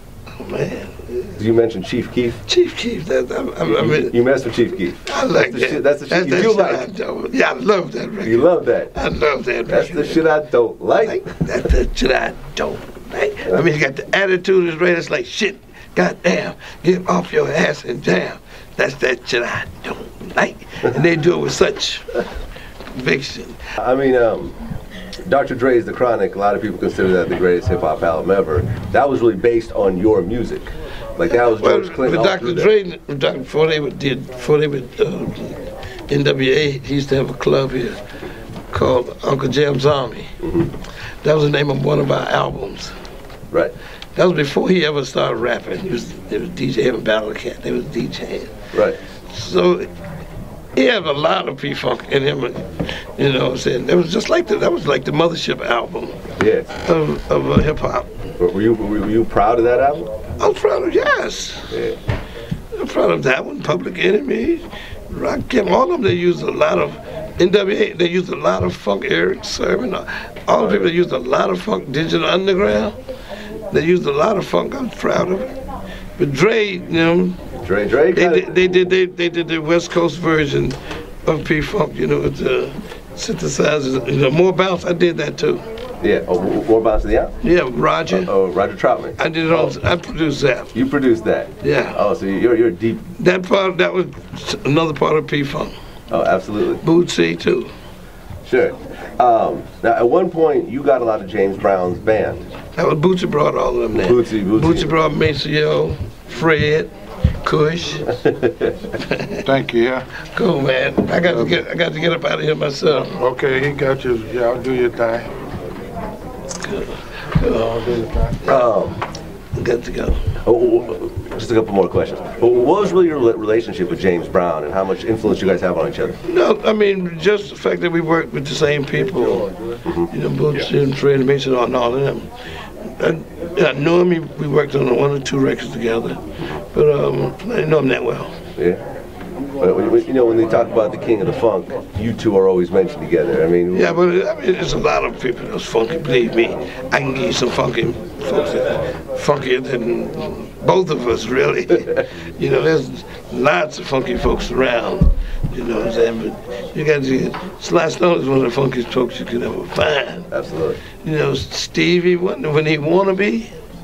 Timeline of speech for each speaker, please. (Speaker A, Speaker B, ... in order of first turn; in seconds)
Speaker A: 0.4-1.4, 2.5-4.2, 5.0-10.2, 11.0-22.3, 22.9-23.6, 31.6-38.0, 38.7-40.4, 41.2-42.9, 44.2-48.7, 49.3-49.9, 50.8-56.2, 56.8-58.1, 60.4-61.8, 62.7-73.0, 73.7-75.5, 76.2-77.4, 78.1-85.7, 87.4-88.3, 89.2-90.8, 91.6-92.0, 93.2-95.7, 96.8-97.7, 102.8-106.9, 107.4-108.2, 108.9-109.4, 110.2-113.2, 116.6-118.7, 119.5-120.3, 126.3-132.3, 133.0-138.4, 143.7-160.3, 161.0-163.5
Speaker B: 1.4-2.4, 3.6-6.9, 8.2-8.9, 9.7-11.2, 23.8-24.6, 25.2-32.7, 40.4-40.7, 48.7-49.0, 56.4-56.7, 58.4-60.1, 61.7-62.0, 70.5-70.9, 77.6-78.8, 86.0-87.3, 88.1-89.7, 90.7-93.1, 96.1-96.8, 98.4-102.5, 103.9-104.9, 108.2-108.9, 118.4-119.0, 120.5-126.2, 138.6-138.8, 139.6-144.0, 160.3-160.8
Speaker C: 109.4-110.1, 111.2-111.5, 113.1-115.3